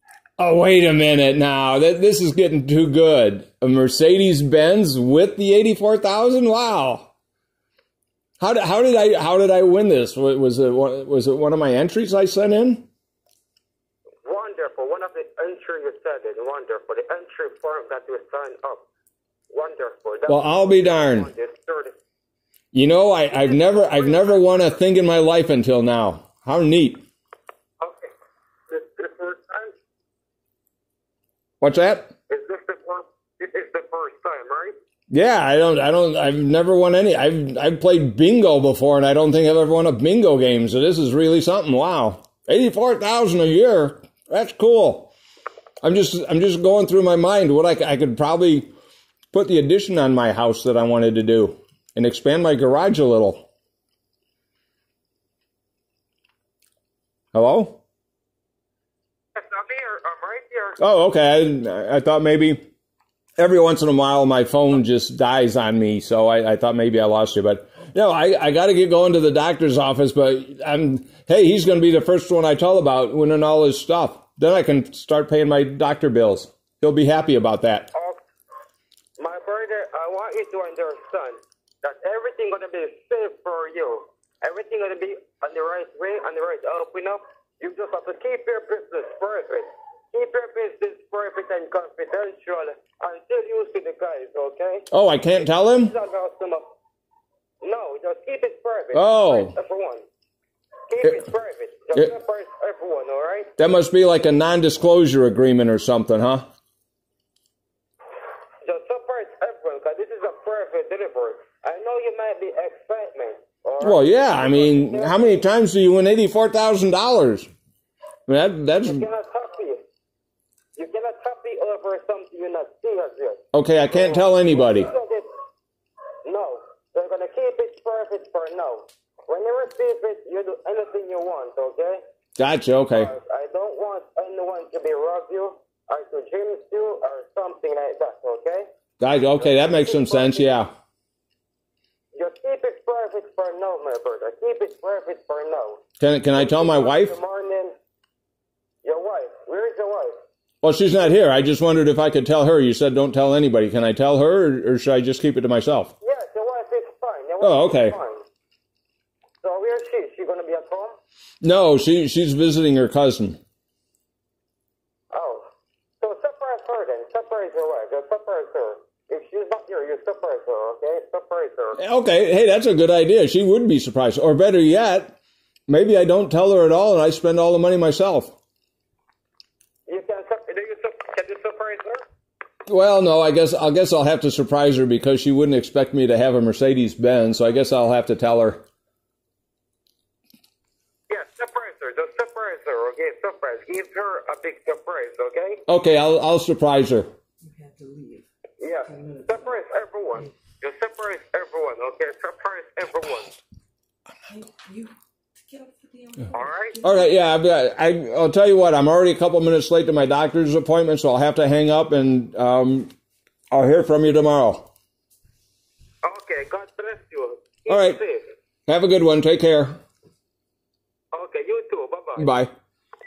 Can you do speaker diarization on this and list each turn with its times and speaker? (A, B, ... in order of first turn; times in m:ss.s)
0:00.4-0:07.1 A
0:08.4-0:12.9 A
0:14.2-0:18.8 B
0:19.5-0:21.9 B
0:20.3-0:21.3 A
0:22.7-0:27.0 A
0:23.3-0:24.8 B
0:27.8-0:28.1 B
0:28.7-0:29.7 B
0:31.6-0:32.1 A
0:32.3-0:34.8 B
0:35.1-0:45.1 A
0:45.8-0:48.7 A
0:49.3-0:53.5 A
0:57.3-0:57.8 A
0:59.4-1:00.8 B
1:00.8-1:02.6 A
1:03.4-1:17.9 A
1:17.9-1:18.2 B
1:19.2-1:34.9 B
1:34.9-1:35.9 A
1:35.4-1:36.7 B
1:37.6-1:40.0 B
1:38.9-1:39.6 A
1:40.9-1:43.5 B
1:43.6-1:46.4 A
1:48.6-1:55.4 B
1:53.8-1:57.5 A
1:58.3-1:59.1 A
1:58.8-1:59.8 B
2:00.8-2:05.3 B
2:03.5-2:04.9 A
2:06.2-2:12.0 B
2:12.4-2:13.1 A
2:12.9-2:18.7 B
2:19.0-2:20.7 A
2:19.4-2:20.5 B
2:22.1-2:25.8 B
2:26.0-2:27.1 A
2:26.3-2:27.8 B
2:28.8-2:30.2 B
2:30.6-2:35.9 A
2:36.0-2:38.2 B
2:37.4-2:38.0 A
2:39.4-2:41.0 B
2:41.4-2:43.4 A
2:45.1-2:45.5 B
2:46.0-2:51.8 B
2:51.8-2:55.2 A
2:55.7-2:58.3 A
2:59.9-3:02.0 B
3:02.7-3:08.6 A
3:11.1-3:15.6 B
3:15.7-3:17.1 A
3:17.5-3:18.2 C
3:18.6-3:23.4 B
3:24.3-3:24.9 C
3:25.5-3:26.8 C
3:26.3-3:26.8 B
3:26.8-3:32.9 A
3:33.5-3:34.7 A
3:36.0-3:38.3 B
3:37.7-3:38.0 A
3:38.7-3:39.8 A
3:41.1-3:42.3 B
3:42.2-3:42.5 A